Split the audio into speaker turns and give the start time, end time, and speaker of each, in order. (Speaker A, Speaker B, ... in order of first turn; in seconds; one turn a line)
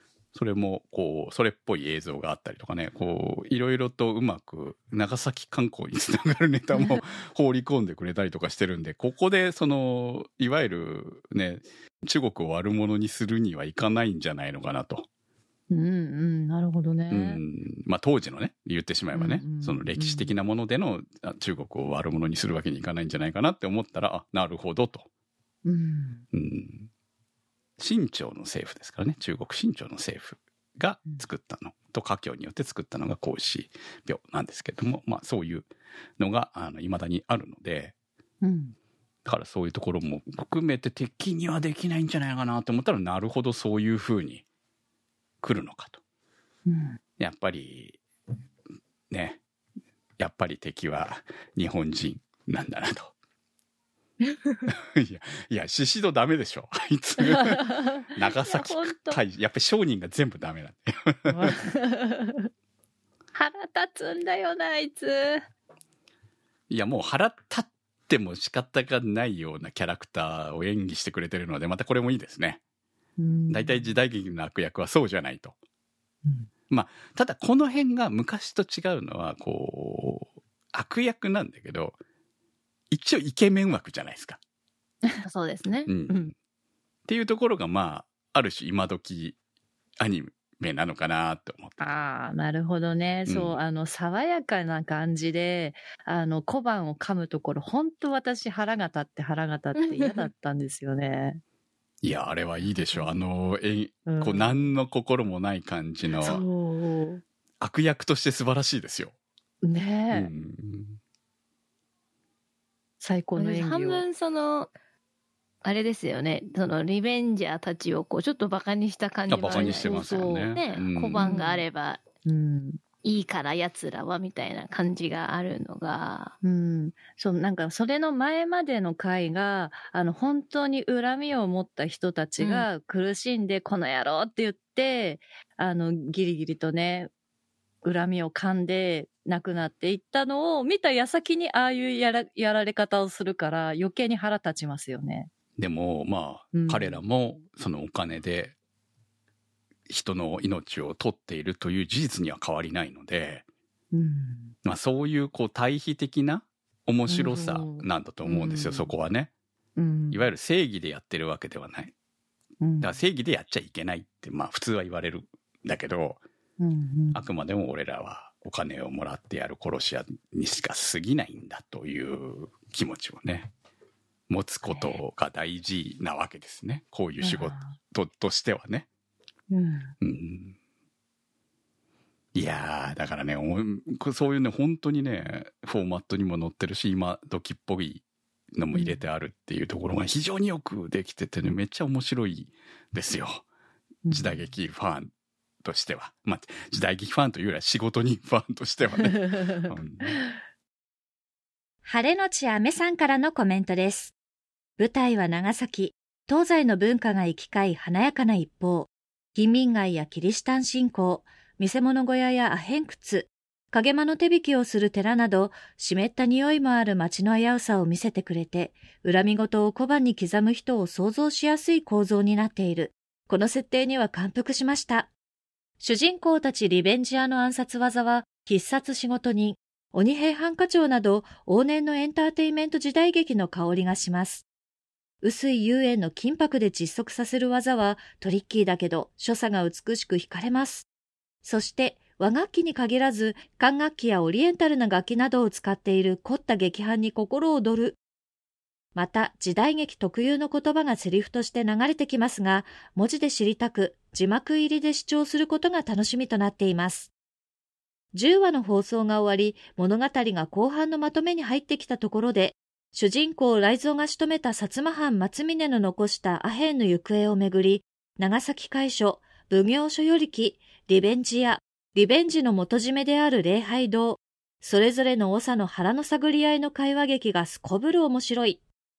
Speaker A: 0.3-15.1
Speaker B: 6.7-7.0
Speaker B: 15.7-17.4
Speaker A: 17.1-25.1
Speaker B: 19.1-20.3
Speaker B: 25.6-26.2
Speaker A: 26.3-26.9
Speaker A: 27.8-37.9
Speaker B: 38.4-38.8
Speaker A: 39.2-44.4
Speaker A: 45.4-46.0
Speaker B: 46.7-47.0
Speaker A: 47.2-48.0
Speaker A: 49.1-49.4
Speaker A: 50.2-53.1
Speaker A: 54.7-61.6
Speaker B: 57.2-59.2
Speaker B: 61.3-62.5
Speaker B: 63.3-65.4
Speaker A: 66.7-72.6
Speaker B: 73.2-73.9
Speaker A: 73.5-75.5
Speaker A: 76.7-82.0
Speaker A: 82.9-84.4
Speaker C: 85.2-85.9
Speaker A: 85.8-86.3
Speaker A: 87.1-89.4
Speaker A: 90.0-91.8
Speaker B: 91.8-101.4
Speaker A: 93.3-93.6
Speaker C: 99.8-100.2
Speaker A: 102.0-106.4
Speaker B: 102.7-103.1
Speaker B: 104.0-104.7
Speaker B: 106.2-107.2
Speaker A: 107.6-109.1
Speaker B: 109.6-110.3
Speaker A: 110.1-111.0
Speaker B: 113.0-114.0
Speaker C: 113.4-114.7
Speaker C: 115.6-122.0
Speaker A: 119.3-121.3
Speaker B: 119.5-120.0
Speaker B: 121.2-121.6
Speaker B: 122.2-122.8
Speaker C: 123.0-126.3
Speaker B: 126.4-137.1
Speaker C: 132.4-132.7
Speaker B: 137.8-145.3
Speaker A: 145.6-148.5
Speaker B: 146.5-147.0
Speaker A: 149.9-153.4
Speaker B: 153.9-154.5
Speaker A: 154.6-159.3
Speaker B: 157.1-158.9
Speaker B: 159.8-160.3
Speaker A: 160.1-161.9
Speaker B: 162.6-163.0
Speaker A: 162.8-166.2
Speaker B: 166.6-167.2
Speaker A: 167.1-173.5
Speaker A: 174.3-178.9
Speaker B: 174.7-174.9
Speaker B: 177.2-177.7
Speaker B: 179.5-179.9
Speaker A: 180.0-180.6
Speaker A: 182.3-193.4
Speaker B: 188.7-189.0
Speaker B: 194.1-194.4
Speaker A: 194.1-195.1
Speaker A: 195.6-200.2
Speaker B: 199.0-199.7
Speaker D: 201.8-204.1
Speaker D: 204.8-225.1
Speaker D: 225.8-234.4
Speaker D: 235.2-240.9
Speaker D: 241.4-248.0
Speaker D: 248.9-257.1
Speaker D: 258.1-278.6